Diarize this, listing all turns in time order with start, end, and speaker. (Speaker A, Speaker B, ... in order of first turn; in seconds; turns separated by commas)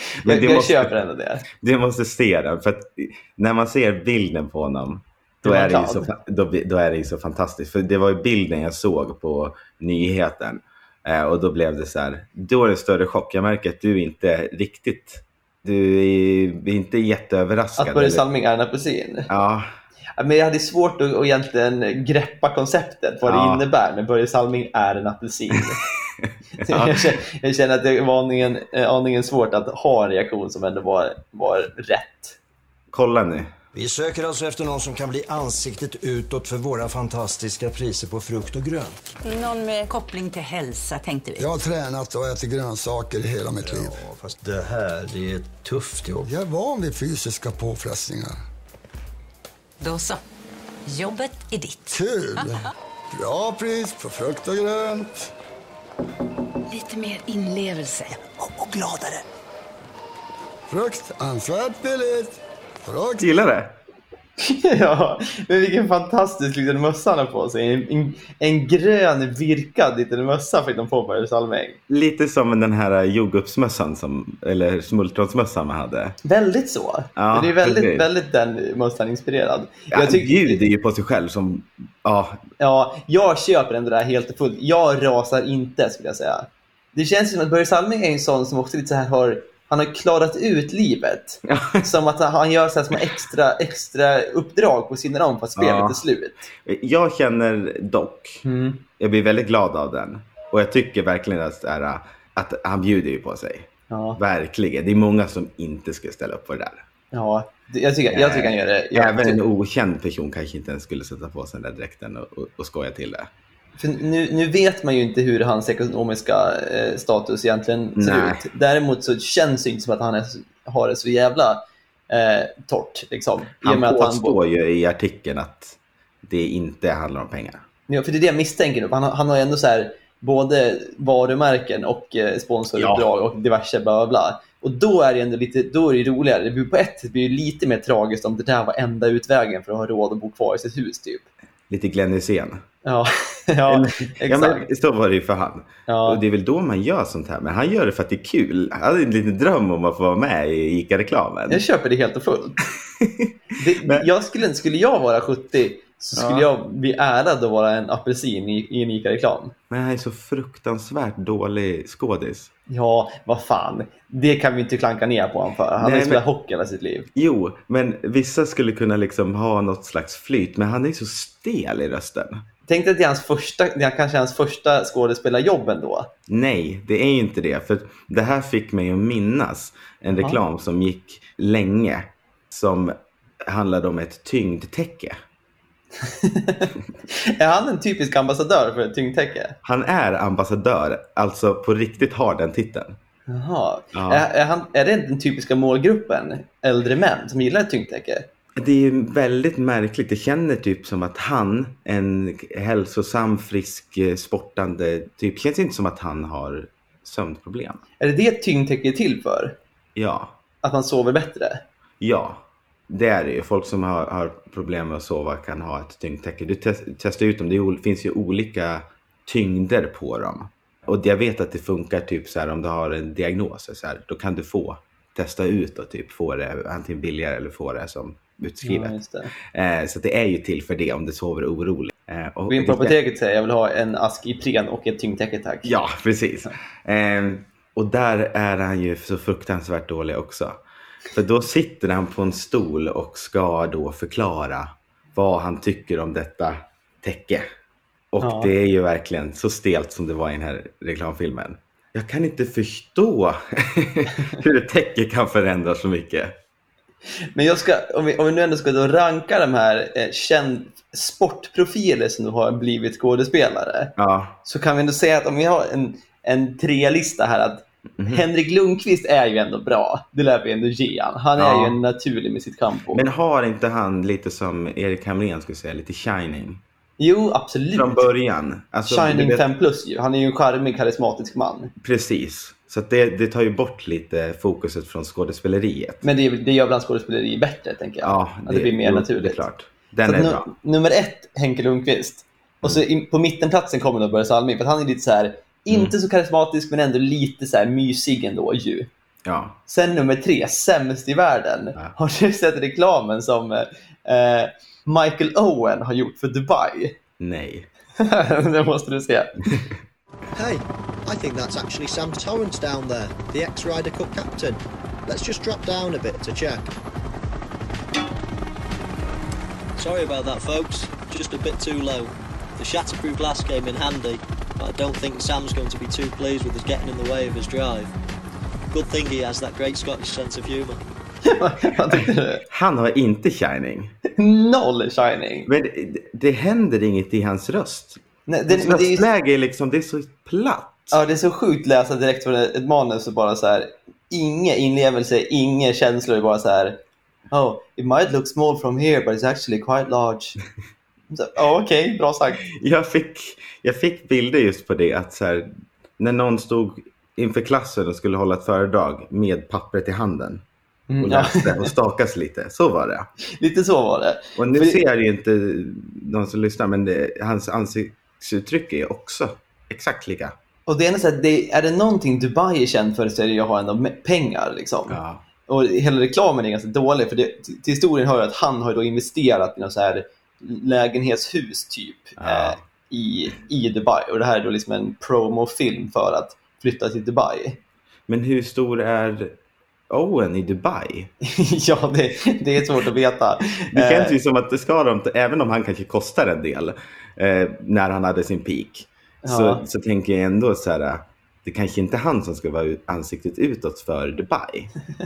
Speaker A: 0.2-0.9, Speaker B: 0.2-1.4, Speaker A: 1.5-18.2, Speaker B: 5.4-6.1, Speaker B: 17.8-19.3, Speaker A: 19.3-19.7, Speaker B: 20.2-25.8, Speaker A: 23.2-23.6, Speaker A: 26.2-27.1, Speaker B: 26.6-32.4, Speaker A: 32.9-33.5, Speaker C: 33.7-39.1, Speaker D: 39.2-41.6, Speaker E: 41.4-44.0, Speaker C: 43.6-46.3, Speaker E: 46.2-48.4, Speaker D: 49.8-50.2, Speaker D: 50.9-52.5, Speaker E: 51.9-55.3, Speaker D: 56.7-59.2, Speaker E: 60.7-63.3, Speaker A: 63.2-63.7, Speaker B: 64.4-71.8, Speaker A: 71.9-76.2, Speaker B: 76.2-80.6, Speaker A: 77.2-78.0, Speaker A: 79.9-82.4, Speaker B: 82.6-96.5, Speaker A: 91.5-91.9, Speaker A: 95.5-96.0, Speaker A: 96.6-98.4, Speaker B: 98.4-98.8, Speaker A: 99.0-106.8, Speaker B: 103.9-104.2, Speaker B: 107.1-109.4, Speaker A: 108.1-113.3, Speaker B: 113.8-124.4, Speaker A: 118.0-118.4, Speaker A: 123.6-127.6, Speaker B: 127.9-141.2, Speaker A: 132.8-133.1, Speaker A: 141.7-142.6, Speaker B: 142.8-144.7, Speaker A: 143.7-151.6, Speaker B: 145.9-146.2, Speaker B: 151.5-152.6, Speaker A: 152.6-153.3, Speaker B: 153.6-159.5, Speaker A: 153.8-154.1, Speaker A: 156.1-156.5, Speaker A: 159.7-162.5, Speaker B: 162.7-167.1, Speaker A: 165.8-166.2, Speaker A: 167.1-172.4, Speaker B: 172.7-176.1, Speaker A: 176.3-185.2, Speaker B: 186.0-189.6, Speaker A: 189.6-192.9, Speaker B: 193.3-198.2, Speaker A: 193.9-194.2, Speaker A: 198.6-207.8, Speaker B: 208.0-209.6, Speaker A: 209.9-210.3, Speaker B: 210.6-211.6, Speaker A: 212.0-232.9, Speaker B: 228.6-229.3, Speaker B: 232.5-235.8, Speaker A: 235.6-240.6, Speaker A: 241.1-247.4, Speaker A: 248.1-256.3, Speaker B: 248.2-248.5, Speaker B: 257.3-273.0, Speaker A: 264.0-264.4, Speaker A: 268.0-268.2, Speaker A: 271.4-271.8, Speaker A: 272.9-276.6, Speaker B: 277.0-278.1, Speaker A: 277.7-279.5, Speaker B: 278.8-281.7, Speaker A: 281.8-286.0, Speaker B: 286.0-289.4, Speaker A: 288.0-290.5, Speaker B: 290.0-298.9, Speaker A: 299.2-299.6, Speaker B: 299.7-306.9, Speaker A: 307.2-307.7, Speaker B: 308.0-309.6, Speaker F: 310.3-316.7, Speaker F: 319.8-327.9, Speaker F: 328.7-330.8, Speaker B: 331.2-332.4, Speaker A: 331.9-333.9, Speaker B: 334.1-335.5, Speaker A: 335.5-341.0, Speaker B: 338.3-339.1, Speaker B: 340.9-346.8, Speaker B: 347.3-350.4, Speaker B: 351.1-352.4, Speaker A: 352.4-360.4, Speaker B: 360.9-361.7, Speaker A: 361.0-363.1, Speaker B: 363.4-364.8, Speaker A: 364.4-370.3, Speaker B: 370.7-387.6, Speaker A: 374.9-375.2, Speaker A: 382.2-382.6, Speaker A: 388.1-389.3, Speaker A: 389.9-391.1, Speaker B: 391.2-394.1, Speaker A: 393.7-404.7, Speaker B: 399.2-399.6